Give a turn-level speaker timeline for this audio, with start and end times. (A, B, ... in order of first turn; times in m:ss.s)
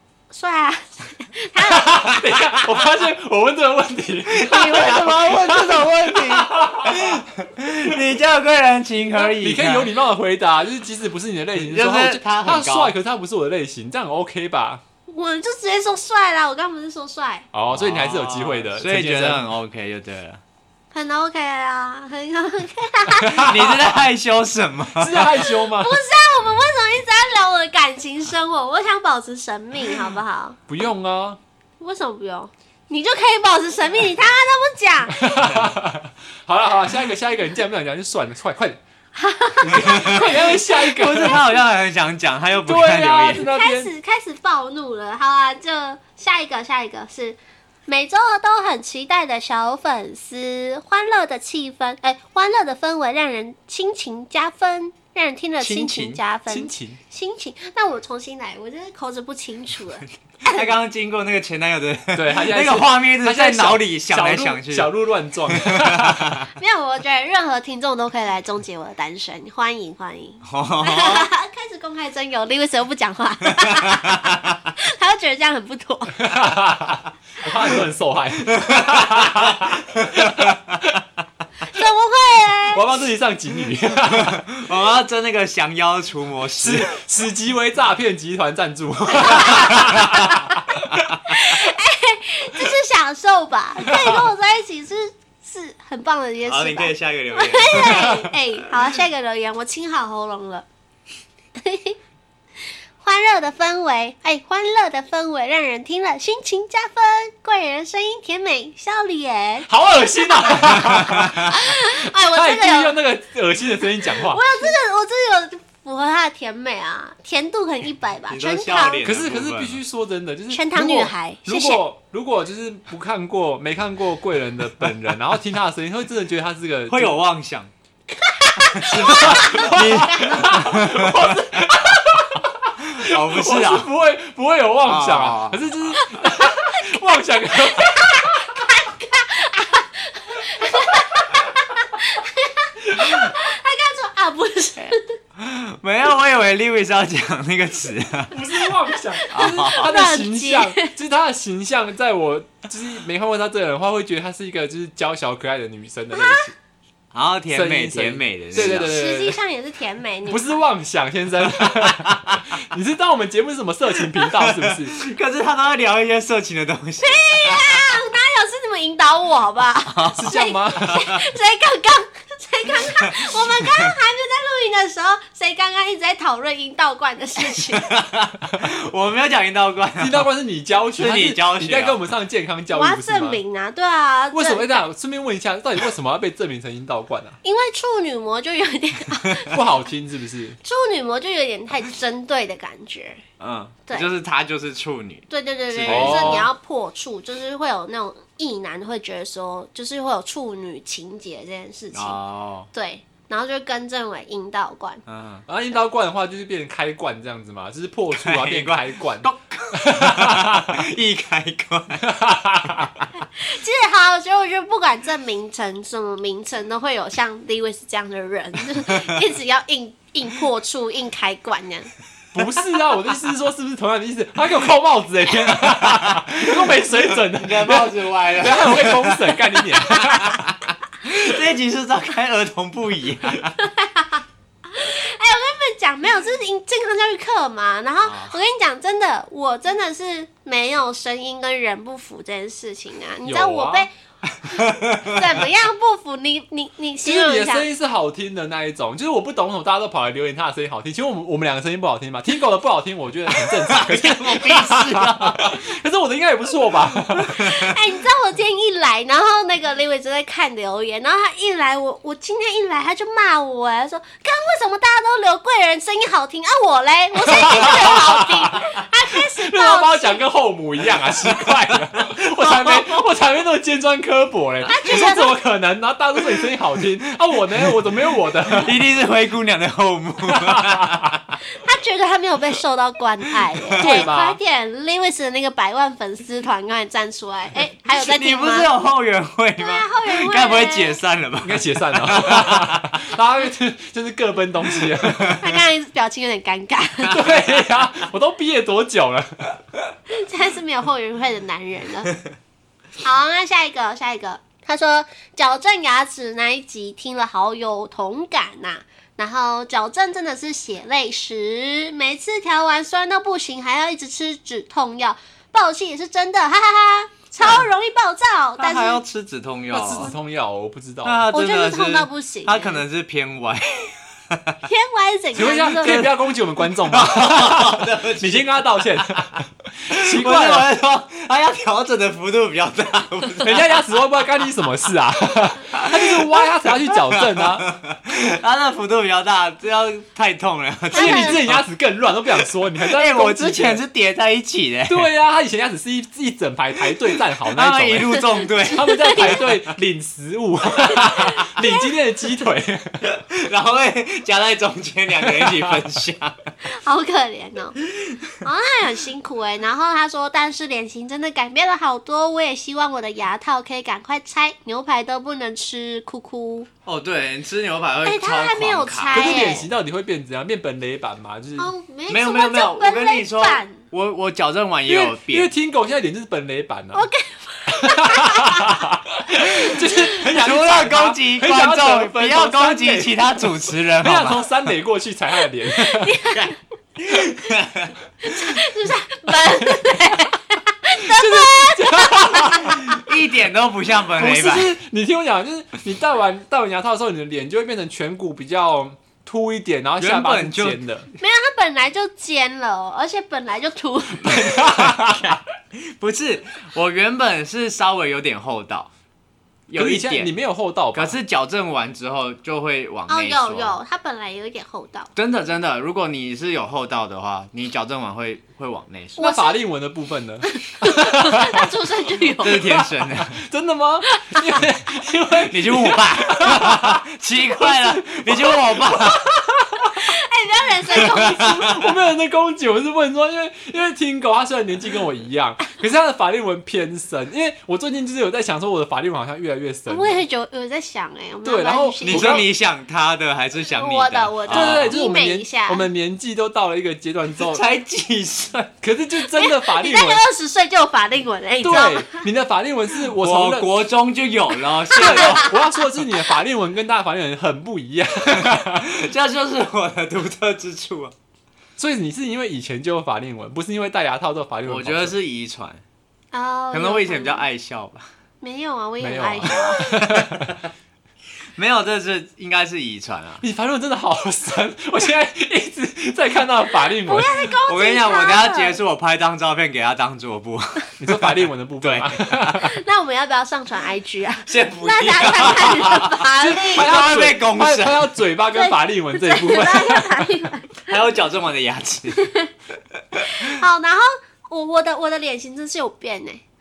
0:00.3-0:02.4 A
0:01.6-0:07.2 B
0:04.3-0:09.9 C
0:09.1-0:14.8 B
0:11.6-0:13.0 C
0:15.1-0:17.5 A
0:17.5-0:19.4 B
0:17.7-0:20.4 C
0:20.9-0:23.5 A
0:23.2-0:23.8 B
0:23.3-0:25.3 C
0:25.0-0:26.0 B
0:25.6-0:30.6 A
0:30.7-0:31.4 B
0:31.8-0:35.3 A
0:35.2-0:38.8 B
0:39.2-0:41.4 A
0:39.6-0:41.4 B
0:39.7-0:43.5 C
0:42.6-0:43.9 B
0:43.4-1:00.7 A
0:55.6-0:56.2 C
0:56.5-0:57.0 B
1:00.4-1:04.9 C
1:02.1-1:06.4 B
1:05.5-1:06.5 C
1:06.6-1:16.2 A
1:10.4-1:11.3 C
1:13.7-1:14.6 C
1:16.2-1:21.0 B
1:18.5-1:20.8 C
1:21.6-1:22.8 A
1:22.7-1:24.4 B
1:24.1-1:27.0 C
1:26.6-1:31.4 B
1:29.3-1:30.0 A
1:29.8-1:30.1 C
1:31.2-1:40.7 A
1:33.9-1:34.2 B
1:36.4-1:38.7 C
1:41.6-1:42.0 A
1:43.0-1:53.0 A
1:49.7-1:54.4 B
1:51.1-1:51.3 C
1:54.0-1:59.0 A
1:58.3-1:59.8 C
1:59.0-2:07.2 B
2:00.5-2:01.8 A
2:06.9-2:07.7 C
2:08.2-2:09.7 A
2:08.6-2:11.8 C
2:08.8-2:18.6 B
2:12.8-2:13.9 C
2:14.8-2:15.7 C
2:16.0-2:16.5 A
2:17.6-2:25.1 A
2:25.4-2:28.4 C
2:28.3-2:36.5 B
2:29.1-2:30.9 A
2:29.3-2:29.9 C
2:37.1-2:38.9 C
2:37.5-2:39.4 B
2:38.6-2:40.5 A
2:40.3-2:45.0 B
2:41.6-2:42.4 C
2:44.2-2:48.0 C
2:47.0-2:57.9 A
2:49.9-2:50.3 C
2:50.1-2:51.1 B
2:52.8-2:53.9 C
2:57.7-3:00.3 C
3:00.0-3:03.4 B
3:01.0-3:02.0 C
3:02.7-3:04.8 A
3:04.3-3:07.4 B
3:07.4-3:09.6 A
3:09.4-3:10.6 B
3:10.6-3:13.2 A
3:13.4-3:16.5 C
3:15.3-3:22.2 A
3:15.9-3:16.5 B
3:21.9-3:22.7 C
3:22.7-3:25.0 A
3:25.1-3:25.4 C
3:25.5-3:30.8 B
3:28.1-3:32.1 C
3:32.0-3:33.0 B
3:33.4-3:41.9 A
3:38.9-3:39.1 C
3:42.3-3:50.4 B
3:45.8-3:53.5 C
3:53.6-4:03.9 A
3:58.0-3:58.4 C
4:03.2-4:03.9 B
4:04.2-4:05.4 C
4:04.6-4:07.7 A
4:07.0-4:17.6 B
4:13.4-4:15.6 C
4:17.1-4:17.6 C
4:17.4-4:30.2 A
4:27.3-4:28.6 B
4:29.1-4:38.8 B
4:32.1-4:33.0 C
4:34.7-4:35.4 A
4:37.6-4:37.9 C
4:38.5-4:41.4 C
4:40.3-4:41.1 B
4:41.5-4:48.7 A
4:43.4-4:44.0 C
4:43.8-4:44.4 B
4:47.9-4:53.0 C
4:49.6-4:51.0 A
4:51.4-4:55.4 B
4:54.8-4:55.4 C
4:55.4-4:57.3 A
4:57.1-4:59.6 B
5:00.1-5:02.2 A
5:03.0-5:19.0 A
5:17.4-5:17.7 C
5:18.6-5:20.1 C
5:19.7-5:21.2 B
5:21.0-5:24.6 C
5:21.3-5:22.8 A
5:24.6-5:26.2 A
5:25.4-5:30.7 B
5:26.9-5:29.4 C
5:29.9-5:33.7 C
5:33.4-5:37.7 B
5:35.7-5:41.6 C
5:40.9-5:43.8 B
5:40.9-5:41.4 A
5:42.8-5:45.1 C
5:44.9-5:53.1 B
5:47.5-5:49.4 C
5:48.6-5:49.4 A
5:53.1-5:56.3 C
5:55.4-5:55.7 B
5:56.7-5:57.8 A
5:58.0-5:58.3 C
5:58.4-6:06.7 A
6:06.9-6:09.6 C
6:08.0-6:09.7 A
6:09.1-6:11.7 B
6:11.6-6:13.8 A
6:12.1-6:15.5 C
6:14.9-6:17.1 B
6:16.9-6:18.8 A
6:17.7-6:26.2 B
6:19.7-6:24.5 C
6:25.8-6:26.6 A
6:27.0-6:28.4 C
6:28.2-6:32.8 A
6:30.9-6:33.0 B
6:32.7-6:34.7 C
6:34.2-6:41.1 B
6:40.0-6:40.8 C
6:41.2-6:44.6 A
6:44.2-6:45.4 B
6:44.2-6:48.9 C
6:49.7-6:50.3 C
6:49.8-6:51.2 B
6:50.9-6:53.8 C
6:53.1-6:55.1 A
6:55.2-6:59.2 C
6:59.2-6:59.6 A
6:59.2-7:01.7 B
7:00.5-7:02.8 A
7:02.4-7:03.4 C
7:03.2-7:07.0 B
7:04.2-7:04.6 A
7:05.5-7:09.2 C
7:07.6-7:09.9 B
7:09.9-7:11.8 A
7:10.9-7:11.8 C
7:11.1-7:20.2 B
7:19.9-7:22.5 A
7:21.4-7:22.5 B
7:22.0-7:25.0 C
7:23.7-7:25.9 A
7:24.5-7:27.7 B
7:27.4-7:28.7 C
7:28.8-7:30.2 B
7:29.3-7:32.2 A
7:31.6-7:33.7 B
7:33.2-7:35.6 C
7:34.9-7:35.8 A
7:34.9-7:38.9 B
7:38.5-7:41.2 C
7:41.8-7:45.2 B
7:44.7-7:45.8 C
7:46.3-7:47.4 A
7:46.7-7:48.1 C
7:48.4-7:49.8 A
7:49.0-7:50.6 B
7:50.0-7:50.5 C
7:51.6-7:53.4 C
7:53.4-7:57.3 B
7:57.0-7:58.8 A
7:57.6-8:02.3 C
8:01.0-8:02.8 B
8:02.5-8:06.9 A
8:04.5-8:08.2 C
8:06.4-8:10.4 B
8:08.5-8:11.0 A
8:10.9-8:12.3 C
8:12.1-8:12.5 A
8:13.2-8:13.5 C
8:13.2-8:16.4 A